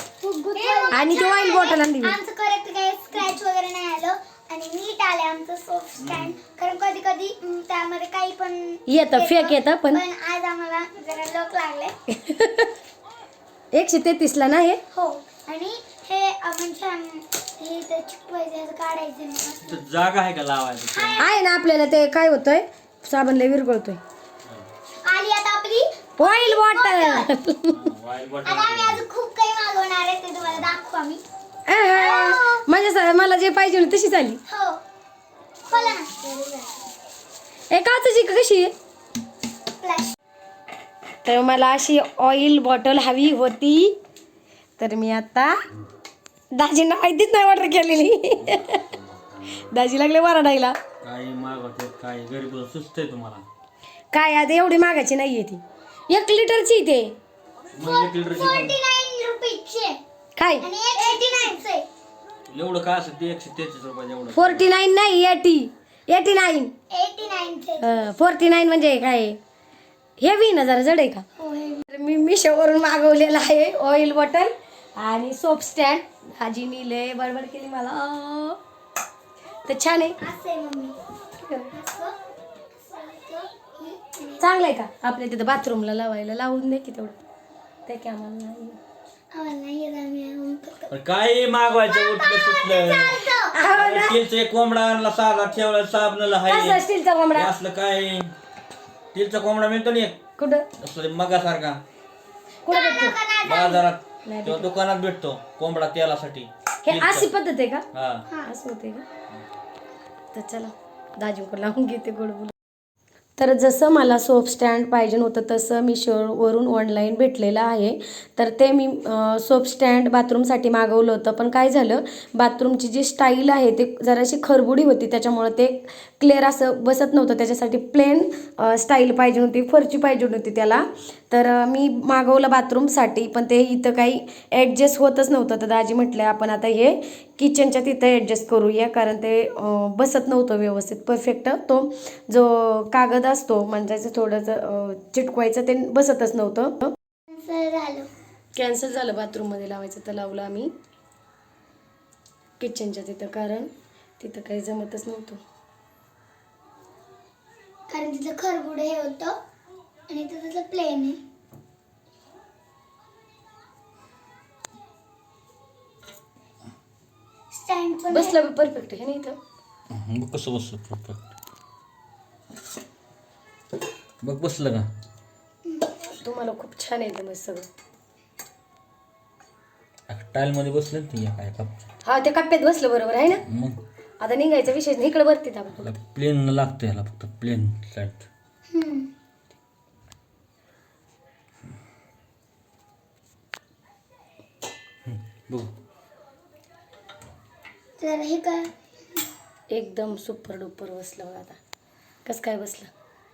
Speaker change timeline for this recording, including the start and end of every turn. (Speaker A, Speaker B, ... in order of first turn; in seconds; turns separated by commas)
Speaker A: 0.2-2.2, Speaker B: 0.5-11.9, Speaker C: 6.0-6.3, Speaker A: 8.9-10.0, Speaker A: 12.1-12.7, Speaker A: 13.7-14.8, Speaker B: 14.9-19.8, Speaker C: 19.6-21.2, Speaker B: 20.9-21.3, Speaker A: 21.2-24.0, Speaker B: 25.0-27.3, Speaker A: 26.2-27.9, Speaker C: 27.7-29.0, Speaker B: 28.4-31.2, Speaker A: 31.7-34.4, Speaker B: 31.9-32.6, Speaker B: 34.5-34.8, Speaker B: 35.7-36.7, Speaker A: 37.7-38.7, Speaker B: 39.8-40.1, Speaker A: 41.2-43.9, Speaker A: 44.8-45.6, Speaker A: 46.5-48.8, Speaker C: 48.3-49.6, Speaker A: 49.5-50.8, Speaker C: 51.0-53.4, Speaker A: 54.1-57.1, Speaker C: 57.7-58.8, Speaker B: 57.8-60.0, Speaker A: 60.4-60.7, Speaker B: 60.6-61.9, Speaker C: 62.5-64.7, Speaker A: 64.3-66.7, Speaker B: 66.9-68.1, Speaker A: 67.8-69.4, Speaker A: 70.2-71.2, Speaker B: 71.4-71.8, Speaker A: 71.9-78.6, Speaker A: 79.7-80.2, Speaker B: 80.2-81.0, Speaker A: 81.4-81.7, Speaker B: 81.7-82.2, Speaker B: 82.8-84.5, Speaker A: 84.4-87.2, Speaker A: 87.9-88.8, Speaker B: 89.3-90.9, Speaker C: 90.9-98.3, Speaker B: 91.8-93.5, Speaker A: 93.3-94.2, Speaker A: 96.4-97.5, Speaker C: 99.1-100.2, Speaker A: 100.4-100.7, Speaker C: 100.8-101.8, Speaker A: 102.6-103.2, Speaker B: 102.7-103.8, Speaker C: 103.4-107.3, Speaker A: 104.2-104.7, Speaker A: 106.8-107.8, Speaker C: 107.9-108.3, Speaker A: 108.4-109.0, Speaker A: 110.3-112.5, Speaker A: 113.4-146.9, Speaker B: 147.3-148.1, Speaker A: 148.5-150.7, Speaker A: 152.6-155.4, Speaker B: 157.9-159.4, Speaker B: 160.1-161.2, Speaker B: 167.5-168.4, Speaker A: 168.1-169.4, Speaker C: 169.9-171.2, Speaker C: 174.2-174.8, Speaker A: 176.1-177.7, Speaker C: 180.1-181.8, Speaker A: 182.1-183.4, Speaker C: 183.4-183.8, Speaker A: 184.2-185.9, Speaker C: 185.8-188.2, Speaker B: 188.7-189.1, Speaker C: 195.1-195.7, Speaker B: 198.0-199.2, Speaker A: 199.7-201.6, Speaker A: 202.2-202.9